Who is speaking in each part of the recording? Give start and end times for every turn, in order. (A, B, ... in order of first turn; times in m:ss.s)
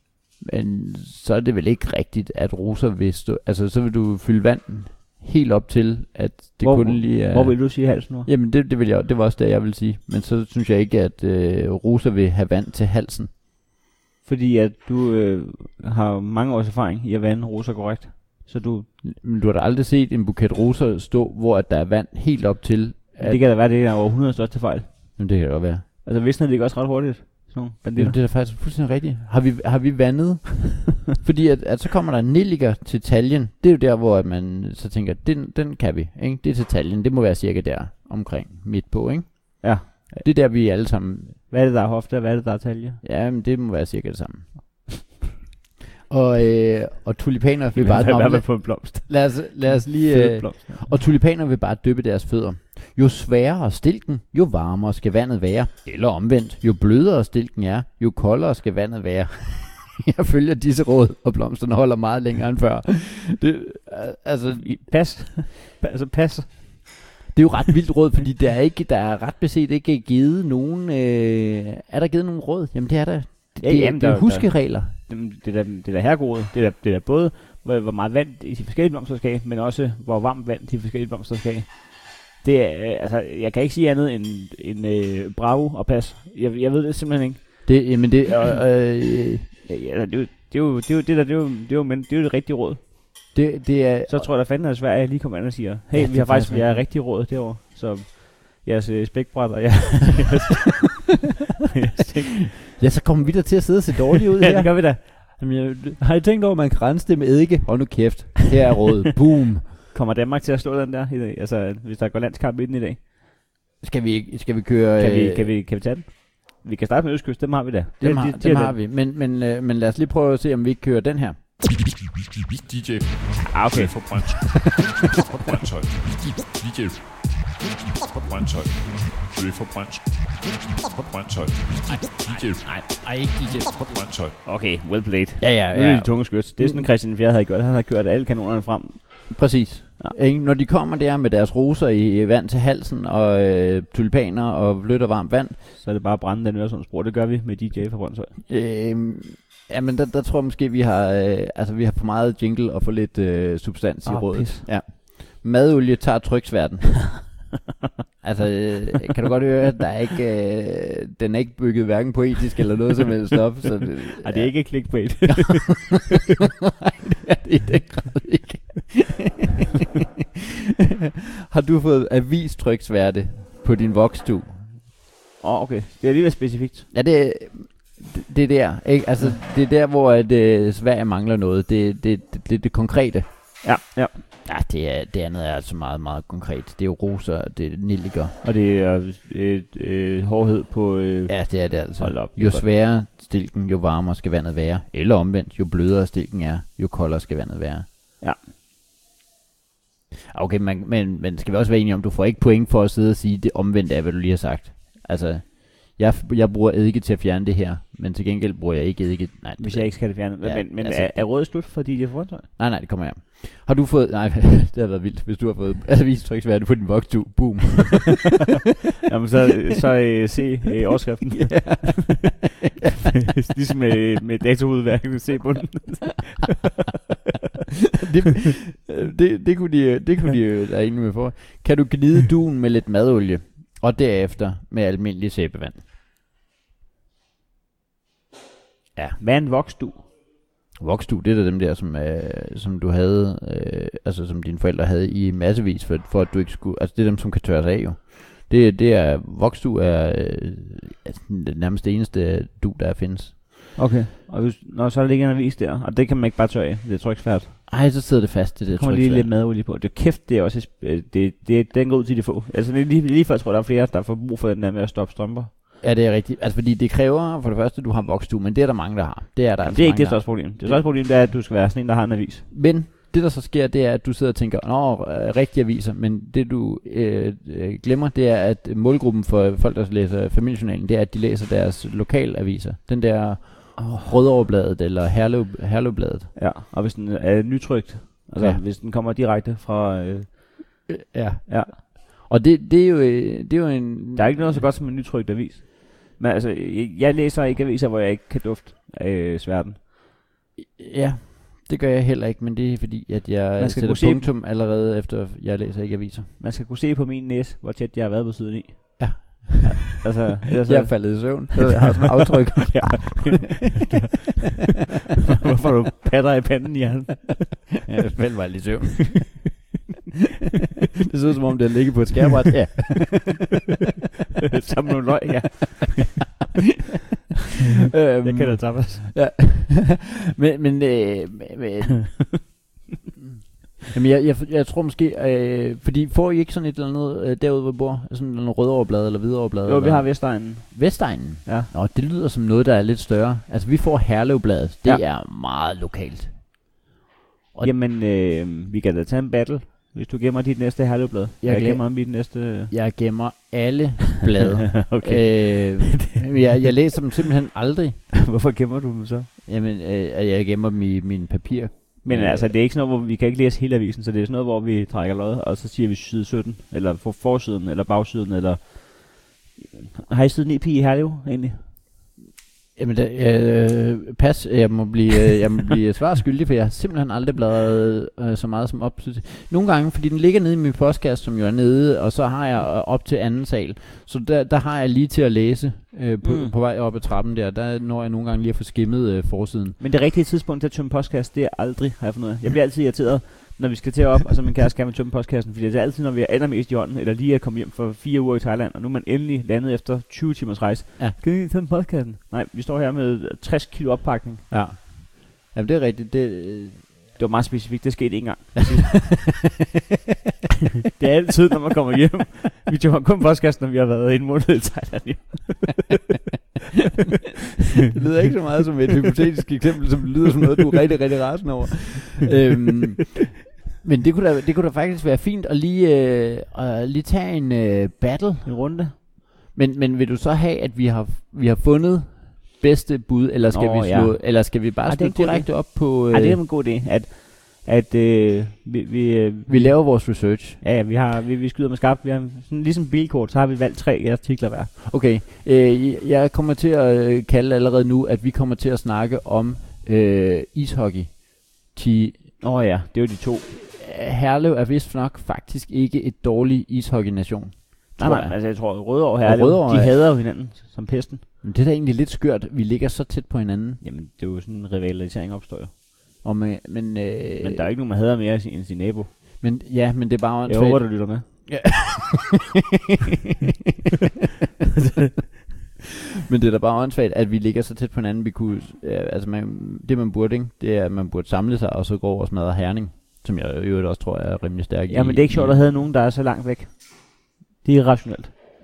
0:00.4-0:13.3 A
0:06.6-0:08.3 B
0:14.2-0:18.9 B
0:19.0-0:23.4 A
0:23.2-0:25.2 B
0:25.2-0:25.8 A
0:26.0-0:28.2 B
0:28.0-0:41.4 A
0:39.6-0:40.3 B
0:41.5-0:43.0 B
0:43.0-0:44.9 A
0:46.1-1:04.8 A
0:47.7-0:51.0 B
1:04.6-1:07.0 B
1:07.3-1:15.0 A
1:13.6-1:27.8 B
1:27.6-1:29.5 A
1:29.6-1:32.9 B
1:33.3-1:34.3 A
1:34.1-1:42.6 B
1:35.9-1:36.9 A
1:42.8-1:49.7 A
1:44.4-1:45.4 B
1:49.9-1:53.0 B
1:53.8-1:55.5 A
1:55.0-1:58.8 B
1:58.0-2:01.4 A
2:02.6-2:14.4 C
2:03.4-2:04.0 B
2:12.7-2:13.9 A
2:14.4-2:20.2 B
2:15.4-2:16.9 A
2:19.3-2:25.6 A
2:25.7-2:28.3 B
2:28.5-2:37.4 A
2:34.0-2:34.7 B
2:38.2-2:45.5 A
2:44.2-2:46.1 B
2:47.2-2:49.8 A
2:51.5-2:54.7 A
2:55.4-2:56.9 B
2:56.9-3:03.6 A
3:03.6-3:04.2 B
3:04.4-3:08.4 A
3:08.4-3:12.7 B
3:11.3-3:17.9 A
3:20.3-3:31.6 A
3:29.6-3:32.5 B
3:32.6-3:38.3 A
3:39.1-3:42.1 B
3:41.4-3:42.4 A
3:43.2-3:46.6 B
3:48.0-3:55.8 A
3:59.2-4:00.1 B
4:00.8-4:13.4 A
4:13.8-4:17.7 B
4:17.7-4:19.3 A
4:18.7-4:25.5 B
4:25.8-4:30.8 A
4:29.6-4:32.5 B
4:32.5-4:46.3 A
4:43.8-4:44.1 B
4:46.4-4:50.9 B
4:48.4-4:48.6 A
4:50.9-4:54.7 A
4:51.5-4:51.7 B
4:54.2-4:59.8 B
5:00.6-5:06.3 A
5:03.6-5:04.3 B
5:06.4-5:11.7 B
5:09.0-5:13.5 A
5:12.7-5:14.8 B
5:15.3-5:17.7 B
5:17.9-5:19.4 A
5:21.1-5:23.5 A
5:24.5-5:26.3 B
5:27.9-5:32.5 A
5:28.2-5:29.1 B
5:33.7-5:46.4 A
5:39.6-5:41.7 B
5:47.6-5:52.7 B
5:51.4-5:58.1 A
5:54.7-5:56.7 B
5:58.2-5:59.3 B
5:59.4-6:02.6 A
6:02.0-6:11.6 B
6:12.8-6:29.8 A
6:26.2-6:26.5 B
6:29.8-6:44.5 B
6:44.5-6:47.0 A
6:47.2-6:49.3 B
6:50.9-6:55.9 B
6:57.9-7:16.4 A
7:08.4-7:09.0 B
7:13.5-7:24.7 B
7:19.5-7:20.6 A
7:24.8-7:32.4 A
7:32.4-7:33.5 B
7:33.5-7:40.0 A
7:38.0-7:41.2 B
7:41.4-7:43.8 A
7:43.8-7:45.7 B
7:46.2-7:47.6 A
7:47.4-7:49.1 B
7:49.4-7:52.4 A
7:50.4-7:51.2 B
7:56.3-8:05.7 A
8:04.9-8:08.3 B